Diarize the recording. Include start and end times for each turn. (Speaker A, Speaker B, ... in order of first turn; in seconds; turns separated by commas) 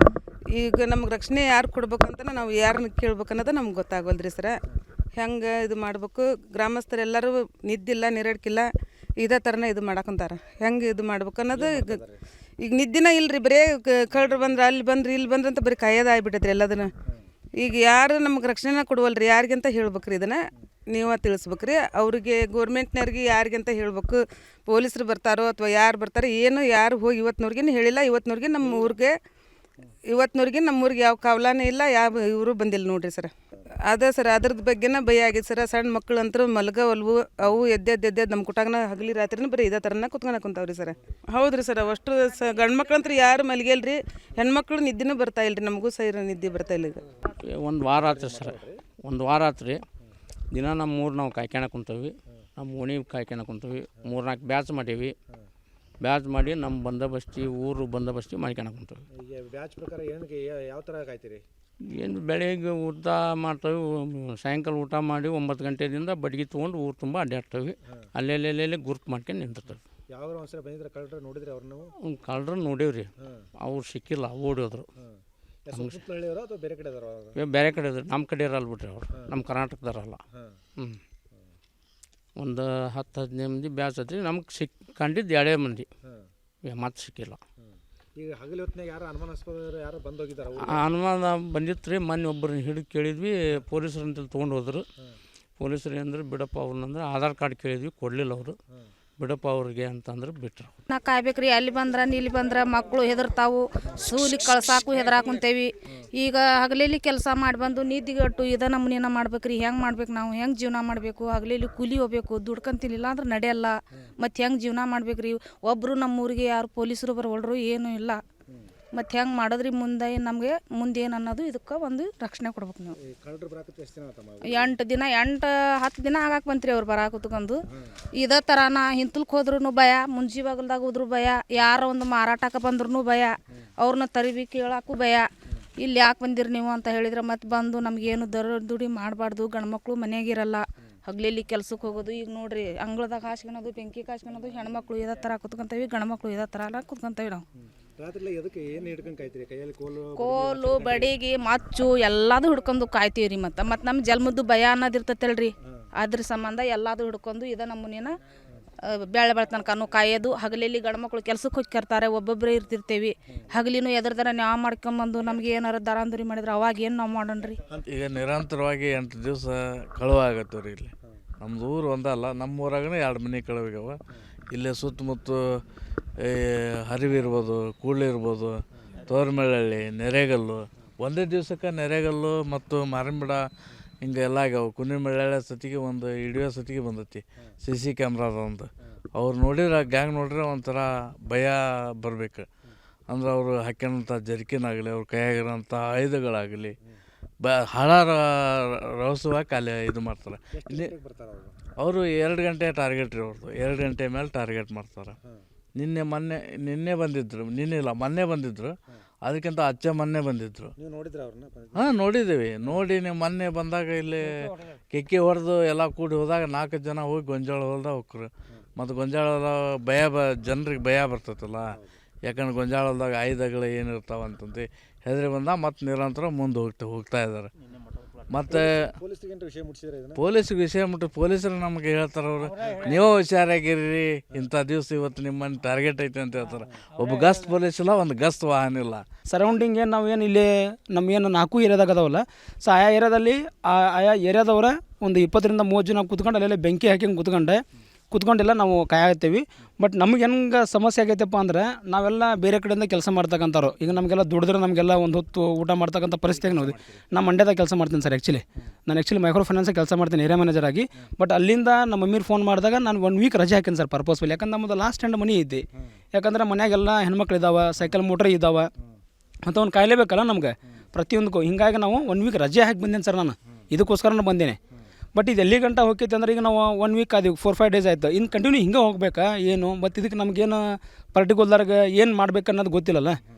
Speaker A: 0.5-4.6, Speaker A: 5.2-12.0, Speaker B: 11.5-12.2, Speaker A: 12.6-16.9, Speaker A: 17.6-29.1, Speaker A: 30.1-33.3, Speaker A: 33.9-47.0, Speaker C: 47.5-49.8, Speaker B: 47.9-48.8, Speaker C: 50.5-55.1, Speaker C: 56.0-59.0, Speaker B: 59.1-61.4, Speaker C: 61.9-69.8, Speaker B: 70.1-71.9, Speaker C: 72.1-74.9, Speaker B: 75.0-77.4, Speaker C: 75.7-76.0, Speaker C: 77.4-80.2, Speaker C: 82.4-85.9, Speaker C: 86.7-87.4, Speaker B: 88.2-90.8, Speaker C: 90.6-94.8, Speaker C: 95.6-98.6, Speaker C: 99.2-100.7, Speaker D: 100.9-118.2, Speaker D: 119.0-123.0, Speaker B: 123.0-124.8, Speaker D: 124.5-127.6, Speaker D: 128.2-135.3, Speaker D: 135.8-147.4, Speaker B: 148.0-151.2, Speaker D: 150.2-158.2, Speaker D: 158.9-167.6, Speaker E: 167.9-174.0, Speaker E: 174.5-175.6, Speaker E: 176.2-183.4, Speaker E: 184.0-192.5, Speaker E: 193.1-196.8, Speaker E: 197.4-200.9, Speaker B: 200.5-201.6, Speaker E: 201.8-205.2, Speaker E: 205.8-210.7, Speaker B: 210.8-212.0, Speaker E: 211.8-227.5, Speaker E: 228.3-229.0, Speaker B: 228.5-230.2, Speaker E: 230.2-239.0, Speaker F: 239.3-268.7, Speaker B: 256.4-257.0, Speaker F: 269.5-274.6, Speaker F: 275.1-283.2